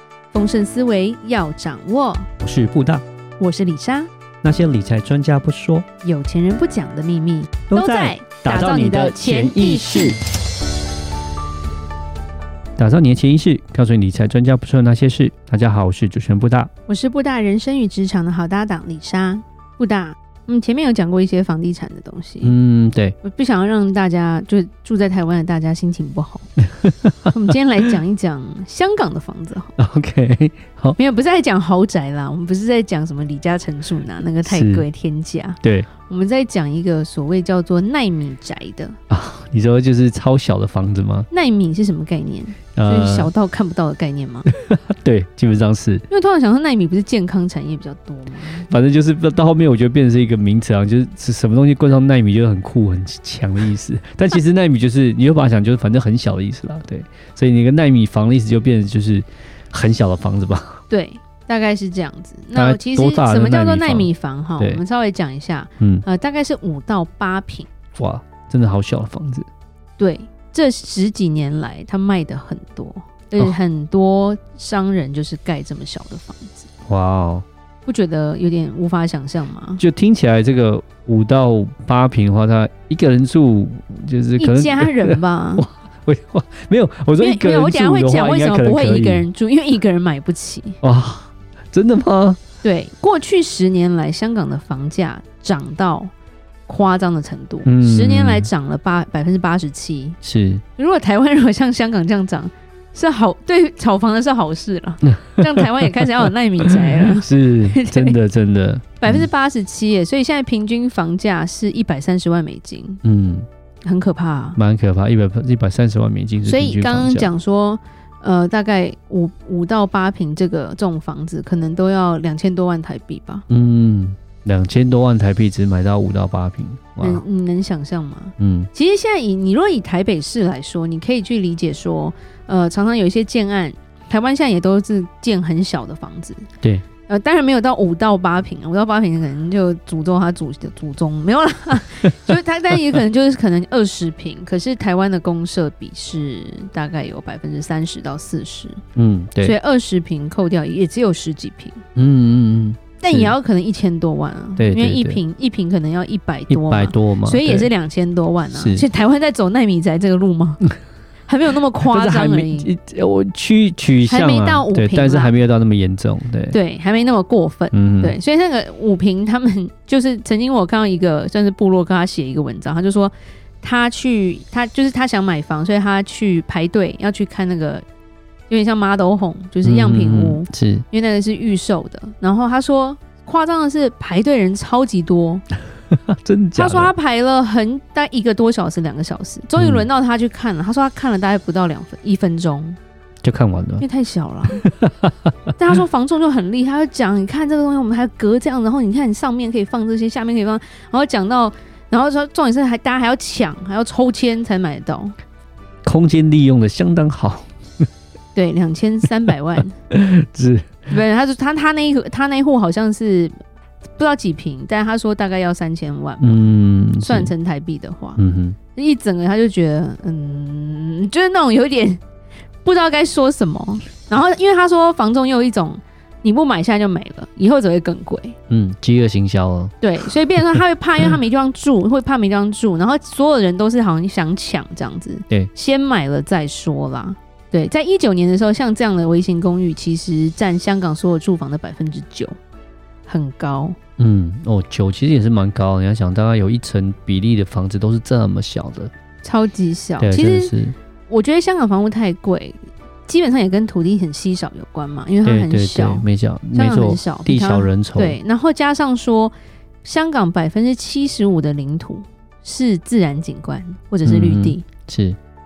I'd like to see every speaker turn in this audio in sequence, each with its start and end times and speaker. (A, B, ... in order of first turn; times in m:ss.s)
0:00.3-0:02.3 A
0:02.4-0:03.0 B
0:03.4-0:04.1 A
0:04.4-0:05.9 B
0:06.0-0:10.2 A
0:07.7-0:10.2 B
0:12.8-0:16.7 B
0:16.9-0:22.6 A
0:22.4-0:23.2 B
0:23.2-0:26.5 A
0:27.3-0:29.8 A
0:29.8-0:31.0 B
0:31.0-0:39.0 A
0:34.5-0:34.8 B
0:35.6-0:35.9 B
0:39.1-0:41.3 B
0:41.3-0:44.5 A
0:42.8-0:43.3 B
0:44.6-0:46.0 B
0:46.1-0:48.7 A
0:48.7-1:00.8 B
1:00.9-1:07.7 A
1:02.6-1:04.8 B
1:05.8-1:06.0 B
1:08.0-1:09.5 B
1:10.0-1:16.7 A
1:16.9-1:17.4 B
1:17.9-1:19.8 A
1:19.8-1:29.2 B
1:24.4-1:25.7 A
1:27.2-1:30.8 A
1:30.8-1:32.4 B
1:32.6-1:36.1 A
1:36.7-1:40.2 A
1:37.6-1:38.5 B
1:40.2-1:40.6 B
1:40.8-1:48.2 A
1:47.2-1:49.3 B
1:49.0-1:53.0 A
1:53.0-1:53.5 B
1:53.8-1:54.6 A
1:54.6-1:57.3 B
1:56.4-2:03.5 A
2:03.5-2:07.2 B
2:07.0-2:16.5 A
2:08.4-2:08.7 B
2:17.1-2:28.8 A
2:29.0-2:29.6 B
2:29.4-2:31.8 A
2:32.0-2:33.3 B
2:33.0-2:40.6 A
2:34.6-2:35.2 B
2:36.5-2:37.7 B
2:38.5-2:38.8 B
2:41.3-2:42.7 A
2:41.9-2:46.6 B
2:44.1-2:45.4 A
2:46.5-2:57.8 A
2:47.7-2:48.2 B
2:58.5-3:05.4 A
2:59.6-3:00.8 B
3:06.1-3:06.9 B
3:06.6-3:12.8 A
3:09.6-3:09.8 B
3:13.2-3:13.8 B
3:13.8-3:14.7 A
3:14.6-3:15.1 B
3:15.6-3:25.1 A
3:25.8-3:27.9 B
3:28.4-3:29.8 A
3:29.9-3:30.8 B
3:30.9-3:33.4 A
3:34.0-3:36.5 A
3:36.2-3:37.3 B
3:37.0-3:38.2 A
3:38.2-3:38.6 B
3:38.8-3:42.0 A
3:42.6-3:48.4 A
3:48.5-3:49.7 B
3:49.8-4:02.4 A
4:03.1-4:03.8 A
4:04.0-4:08.9 B
4:09.2-4:10.5 A
4:10.0-4:10.8 B
4:11.1-4:24.7 A
4:15.2-4:18.2 B
4:24.0-4:25.2 B